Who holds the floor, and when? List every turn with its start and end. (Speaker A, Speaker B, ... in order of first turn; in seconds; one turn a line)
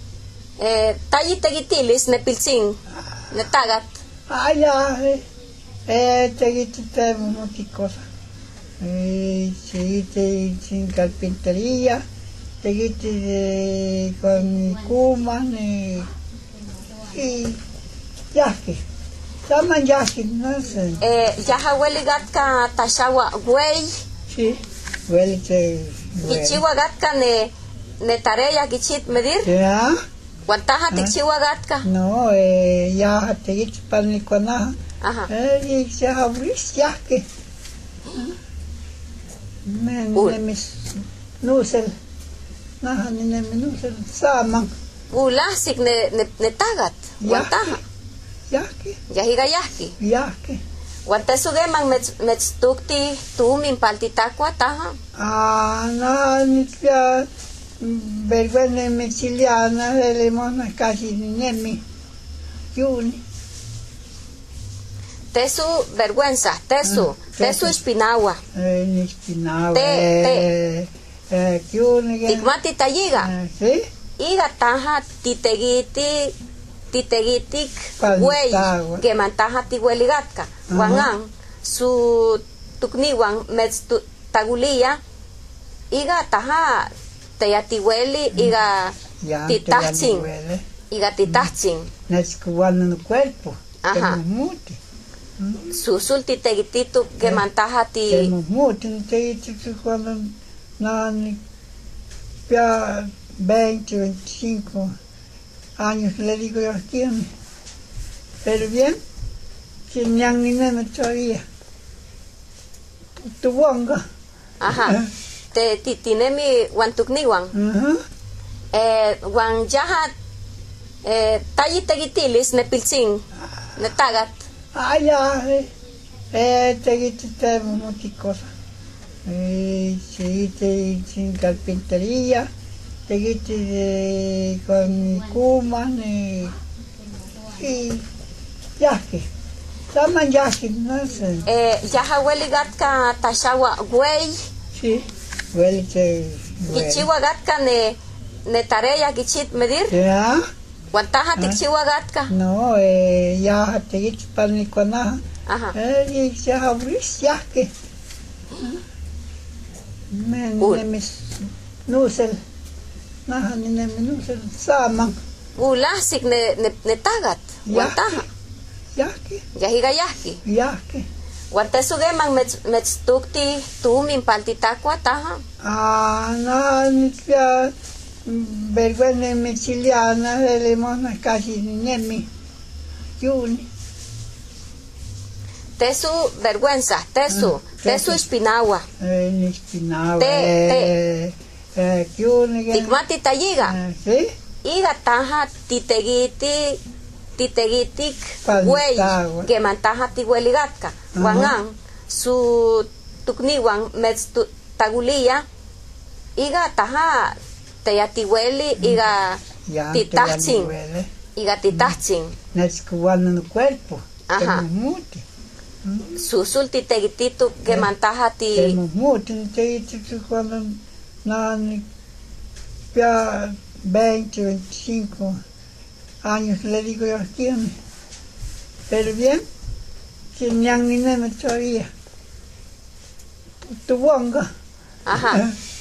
Speaker A: 0.6-2.8
Speaker A: 3.3-3.9
Speaker B: 4.3-5.2
Speaker B: 5.9-8.0
Speaker B: 8.8-12.0
Speaker B: 12.6-16.1
Speaker B: 17.1-17.6
Speaker B: 18.3-18.8
Speaker B: 19.5-21.0
Speaker A: 21.0-23.9
Speaker B: 24.3-26.6
Speaker A: 26.2-29.5
Speaker B: 29.4-30.0
Speaker A: 30.5-31.9
Speaker B: 31.8-34.8
Speaker A: 35.0-35.3
Speaker B: 35.3-37.2
Speaker B: 38.1-38.4
Speaker B: 39.6-41.9
Speaker B: 42.8-44.7
Speaker A: 45.1-47.8
Speaker B: 47.2-47.8
Speaker B: 48.5-49.0
Speaker A: 49.1-50.0
Speaker B: 50.0-50.6
Speaker A: 51.1-55.0
Speaker B: 55.2-57.3
Speaker B: 57.8-61.8
Speaker B: 62.8-63.2
Speaker A: 65.3-68.4
Speaker B: 66.8-67.8
Speaker B: 68.5-72.5
Speaker A: 69.7-70.5
Speaker A: 72.3-73.3
Speaker B: 73.2-73.9
Speaker A: 74.2-76.3
Speaker A: 76.9-85.0
Speaker B: 78.0-79.0
Speaker B: 80.7-81.1
Speaker A: 85.9-88.9
Speaker B: 89.2-90.6
Speaker A: 89.5-90.3
Speaker A: 90.9-91.9
Speaker B: 92.1-94.8
Speaker A: 93.8-94.2
Speaker B: 95.4-95.7
Speaker A: 95.7-98.3
Speaker B: 98.1-101.4
Speaker B: 102.5-104.9
Speaker B: 105.8-107.3
Speaker B: 108.4-109.0
Speaker B: 109.9-111.4
Speaker B: 113.2-114.0
Speaker A: 114.6-115.0
Speaker A: 115.5-117.5
Speaker B: 117.5-118.0
Speaker A: 118.7-120.1
Speaker A: 121.0-123.2
Speaker A: 123.8-124.4
Speaker B: 124.8-125.7
Speaker B: 126.3-128.5
Speaker B: 129.2-132.5
Speaker B: 133.1-136.5
Speaker B: 137.5-138.1
Speaker B: 138.8-139.3
Speaker B: 139.9-141.5
Speaker A: 141.5-144.4
Speaker B: 144.8-147.1
Speaker A: 146.7-149.9
Speaker B: 149.9-150.4
Speaker A: 150.9-152.3
Speaker B: 152.3-155.2
Speaker A: 155.5-155.8
Speaker B: 155.7-157.7
Speaker B: 160.1-162.4
Speaker B: 163.3-165.2
Speaker A: 165.6-168.3
Speaker B: 167.7-168.3
Speaker B: 169.0-169.4
Speaker A: 169.6-170.4
Speaker B: 170.4-171.1
Speaker A: 171.5-175.4
Speaker B: 175.6-177.7
Speaker B: 178.2-182.3
Speaker B: 183.2-183.7
Speaker A: 185.8-188.9
Speaker B: 187.3-188.2
Speaker B: 189.0-193.0
Speaker A: 190.2-190.9
Speaker A: 192.7-193.8
Speaker B: 193.6-194.3
Speaker A: 194.6-196.8
Speaker A: 197.4-205.4
Speaker B: 198.4-199.5
Speaker B: 201.2-201.6
Speaker A: 206.4-209.4
Speaker B: 209.7-211.1
Speaker A: 209.9-210.7
Speaker A: 211.4-212.3
Speaker B: 211.7-212.0
Speaker B: 212.5-215.2
Speaker A: 214.3-214.6
Speaker B: 215.8-216.1
Speaker A: 216.1-218.8
Speaker B: 218.6-221.8
Speaker B: 222.9-225.4
Speaker B: 226.2-227.7
Speaker B: 228.9-229.4
Speaker B: 230.3-231.9
Speaker B: 233.6-234.5
Speaker A: 235.1-235.5
Speaker B: 235.1-235.5